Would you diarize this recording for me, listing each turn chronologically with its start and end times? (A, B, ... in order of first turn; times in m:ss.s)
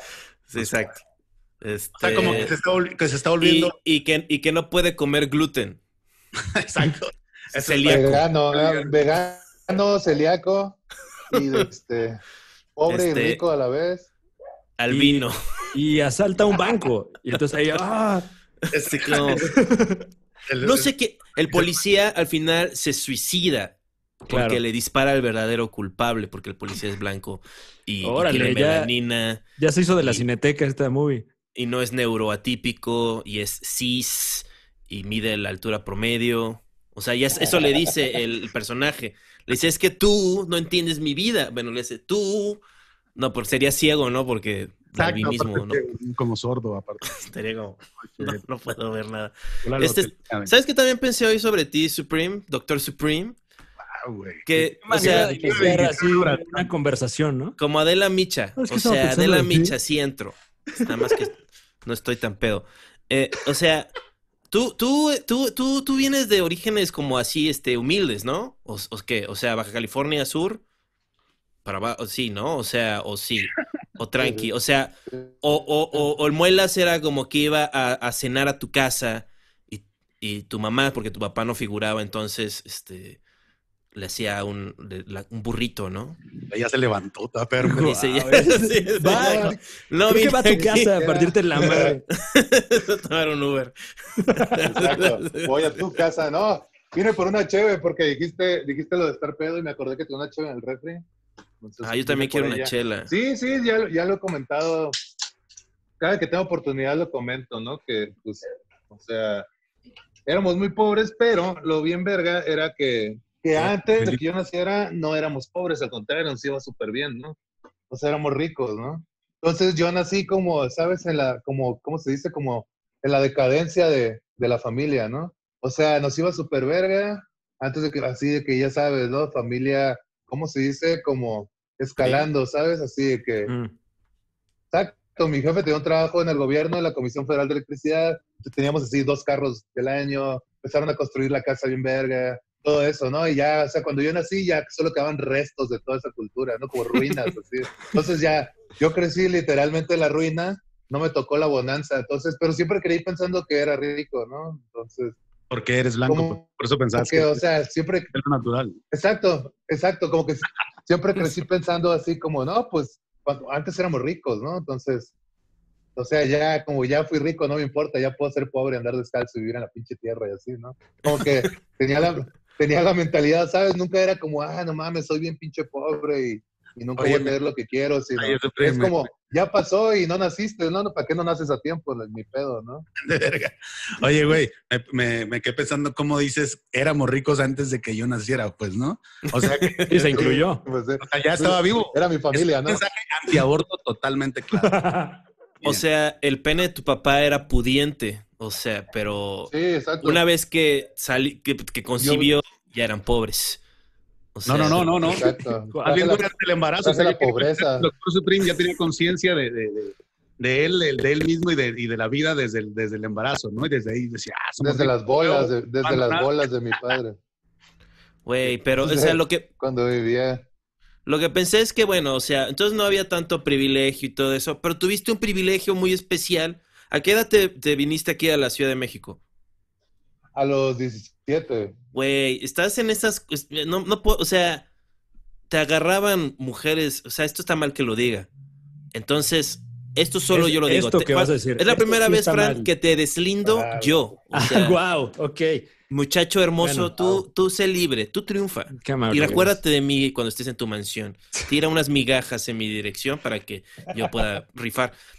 0:00.5-0:01.0 A
0:00.6-0:00.9 B
0:01.6-0:02.5 A
0:02.0-0:03.8 B
0:03.4-0:05.8 A
0:06.6-0:09.0 B
0:07.5-0:08.2 A
0:07.9-0:12.2 C
0:12.8-0:14.1 C
0:12.9-0:13.4 A
0:14.8-0:15.4 A
0:14.9-0:18.3 D
0:18.7-0:19.5 B
0:18.7-0:19.4 A
0:19.4-0:20.1 D
0:20.5-0:20.9 B
0:20.6-0:29.4 A
0:21.5-0:21.8 B
0:24.3-0:24.6 D
0:28.0-0:28.9 D
0:29.6-0:31.3 D
0:31.6-0:42.6 A
0:43.2-0:45.8 A
0:45.0-0:47.2 B
0:47.0-0:53.4 A
0:48.0-0:48.4 B
0:49.6-0:50.5 B
0:53.9-0:56.7 B
0:54.5-0:55.6 A
0:54.8-0:57.6 D
0:57.6-1:03.9 A
0:58.6-0:59.7 D
1:04.5-1:10.6 A
1:11.6-1:23.2 A
1:14.2-1:14.5 C
1:15.1-1:15.4 C
1:23.9-1:26.2 A
1:26.5-1:28.0 B
1:27.6-1:29.6 D
1:27.8-1:33.8 A
1:29.0-1:29.6 C
1:30.1-1:32.0 D
1:30.5-1:32.0 C
1:34.2-1:34.6 D
1:34.3-1:35.5 A
1:34.6-1:41.0 C
1:41.6-1:44.9 C
1:41.8-1:43.1 A
1:46.0-1:49.5 C
1:50.3-1:57.4 C
1:53.6-1:54.2 B
1:57.9-2:13.5 C
2:13.5-2:13.7 D
2:14.7-2:35.2 C
2:35.5-2:37.4 B
2:36.1-2:36.4 C
2:37.0-2:38.1 C
2:38.1-2:38.8 B
2:38.9-2:45.1 C
2:46.0-3:02.9 C
2:57.0-2:57.4 B
2:58.2-2:59.1 B
3:03.0-3:10.1 B
3:09.3-3:09.9 A
3:09.9-3:10.6 D
3:10.1-3:12.8 C
3:11.0-3:14.7 B
3:14.6-3:15.2 D
3:15.6-3:23.6 A
3:19.5-3:20.2 C
3:22.0-3:22.3 C
3:24.4-3:25.2 A
3:24.5-3:25.3 B
3:25.1-3:26.3 C
3:25.7-3:26.1 D
3:25.8-3:37.0 B
3:26.8-3:27.9 C
3:34.6-3:37.2 C
3:38.2-3:39.5 A
3:38.4-3:40.4 C
3:41.1-3:49.2 A
3:50.4-3:51.8 C
3:51.9-3:54.7 A
3:55.5-3:58.3 A
3:58.9-4:04.8 A
4:00.3-4:02.7 D
4:03.4-4:04.0 C
4:04.3-4:05.7 D
4:05.9-4:14.9 A
4:06.6-4:06.9 D
4:08.8-4:09.6 D